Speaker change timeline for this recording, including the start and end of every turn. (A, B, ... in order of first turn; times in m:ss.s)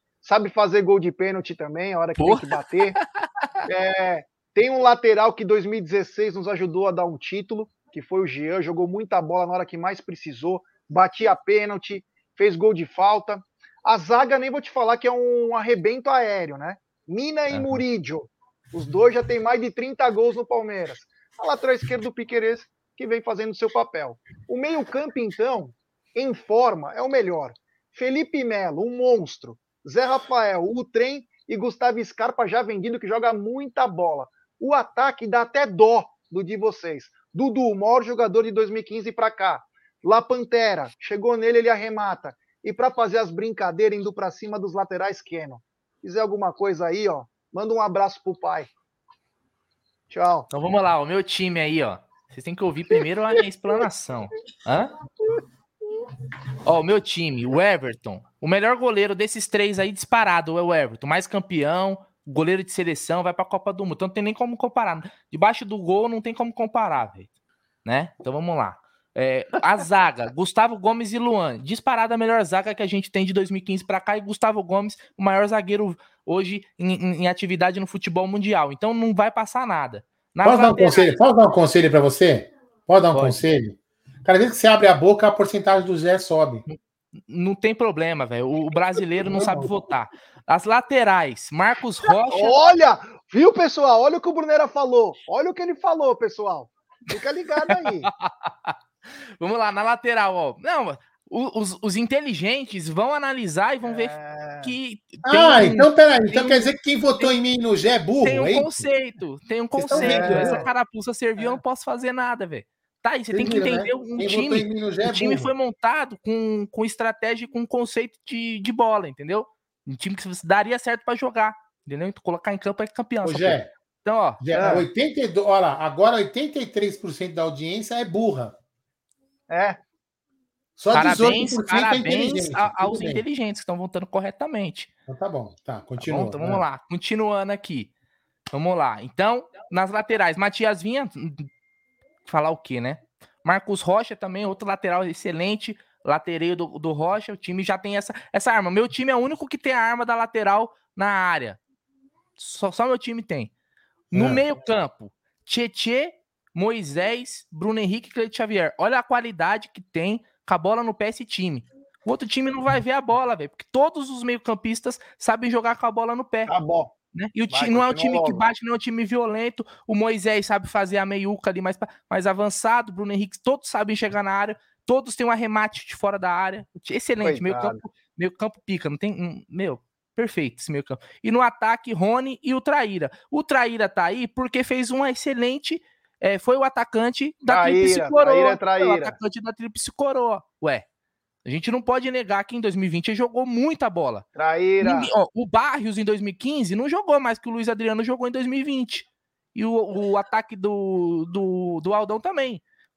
0:00.2-0:03.0 A
0:02.2-0:03.5 B
0:03.6-0:48.7 A
0:17.5-0:17.8 B
0:50.1-0:50.5 A
0:50.5-0:54.9 B
0:56.6-1:07.3 B
1:07.8-1:21.2 B
1:20.4-1:26.6 C
1:23.1-1:23.4 B
1:26.7-1:32.6 B
1:29.2-1:29.7 C
1:32.3-1:38.1 A
1:37.7-1:38.8 B
1:39.4-1:47.3 B
1:43.8-1:44.8 A
1:45.2-1:48.9 C
1:48.2-2:04.8 B
1:49.8-1:50.6 C
1:49.9-1:50.7 A
1:53.3-1:55.5 C
2:03.2-2:03.7 C
2:04.4-2:08.6 C
2:04.5-2:04.9 A
2:09.5-2:09.8 A
2:10.8-2:13.2 C
2:10.9-2:14.9 B
2:15.1-2:16.6 C
2:16.0-2:17.9 B
2:18.5-2:21.5 B
2:22.3-2:31.6 B
2:32.4-2:33.5 B
2:34.1-2:34.4 C
2:34.1-2:46.5 B
2:46.5-2:46.9 A
2:47.1-3:10.8 B
2:47.5-2:48.4 A
2:57.2-2:57.8 A
3:07.5-3:09.2 A
3:11.4-3:14.3 B
3:14.4-3:15.1 A
3:14.8-3:22.6 B